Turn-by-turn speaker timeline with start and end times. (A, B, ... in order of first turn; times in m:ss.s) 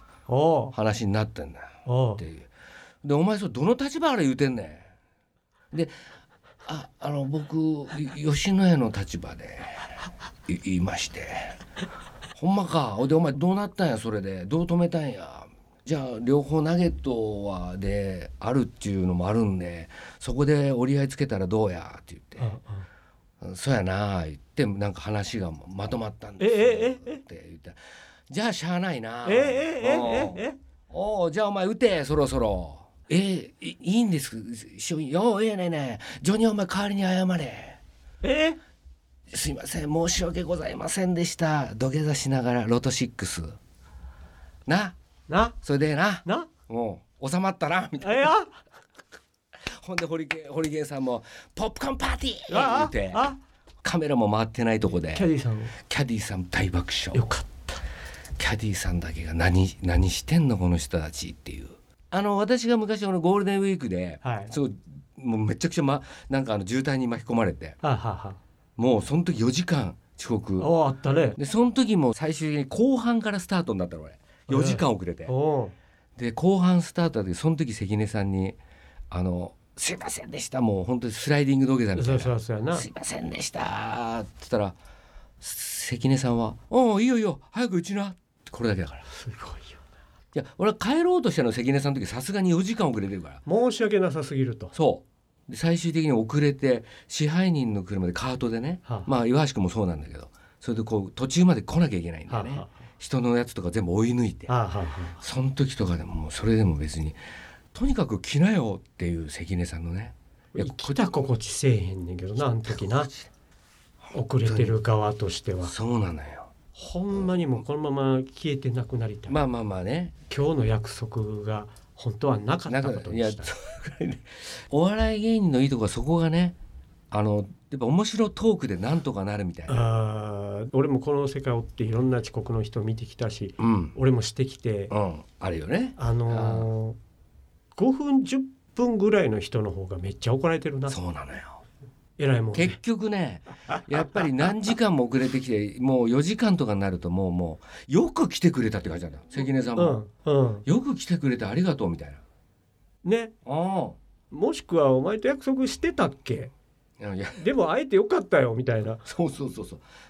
0:00.3-0:00.7 A
0:00.7-0:02.5 B
0:01.8-0:02.2 A
0:03.0-0:04.9 B
0:06.6-0:11.6 B
0:12.4-0:22.5 B
0:22.4-0:22.8 A
0:23.4-0:37.8 B
0:26.4-0:27.2 A
0:29.2-0:30.6 A
0:38.2-0:38.6 A
0:39.3-0:43.6 B
0:44.7-0:45.0 B
0:45.3-0:45.6 A
0:45.6-0:48.3 B
0:46.2-0:46.5 A
0:48.0-0:48.6 A
0:49.8-0:53.3 B
0:52.5-0:53.4 A
0:53.8-0:55.3 B
0:55.1-0:55.7 A
0:55.9-0:57.2 B
0:57.1-0:57.8 A
0:58.4-1:07.8 B
1:04.2-1:04.5 A
1:07.8-1:08.4 A
1:08.8-1:10.7 B
1:10.6-1:11.4 A
1:11.4-1:15.3 B
1:14.5-1:15.7 A
1:16.2-1:18.6 B
1:19.1-1:24.8 B
1:22.0-1:22.8 A
1:25.4-1:29.0 B
1:29.1-1:29.8 A
1:30.3-1:33.4 B
1:33.4-1:34.7 A
1:34.7-1:44.5 B
1:42.3-1:42.7 A
1:44.5-1:45.2 A
1:45.2-1:47.2 B
1:47.7-1:51.2 B
1:50.5-1:53.1 A
1:52.6-1:53.3 B
1:54.0-1:54.8 B
1:54.1-1:55.7 A
1:55.6-1:56.5 B
1:56.7-1:59.4 A
1:59.3-2:00.1 B
2:00.3-2:03.5 A
2:02.7-2:06.6 B
2:07.1-2:09.9 B
2:09.7-2:14.9 A
2:13.6-2:13.9 B
2:14.9-2:16.7 B
2:16.0-2:17.0 A
2:17.8-2:21.0 A
2:20.9-2:21.6 B
2:22.2-2:22.8 A
2:22.5-2:30.0 B
2:29.8-2:30.6 A
2:30.6-2:32.2 B
2:33.0-2:33.3 A
2:33.4-2:34.0 B
2:34.3-2:36.5 A
2:37.0-2:37.4 B
2:37.4-2:39.0 A
2:39.0-2:39.8 B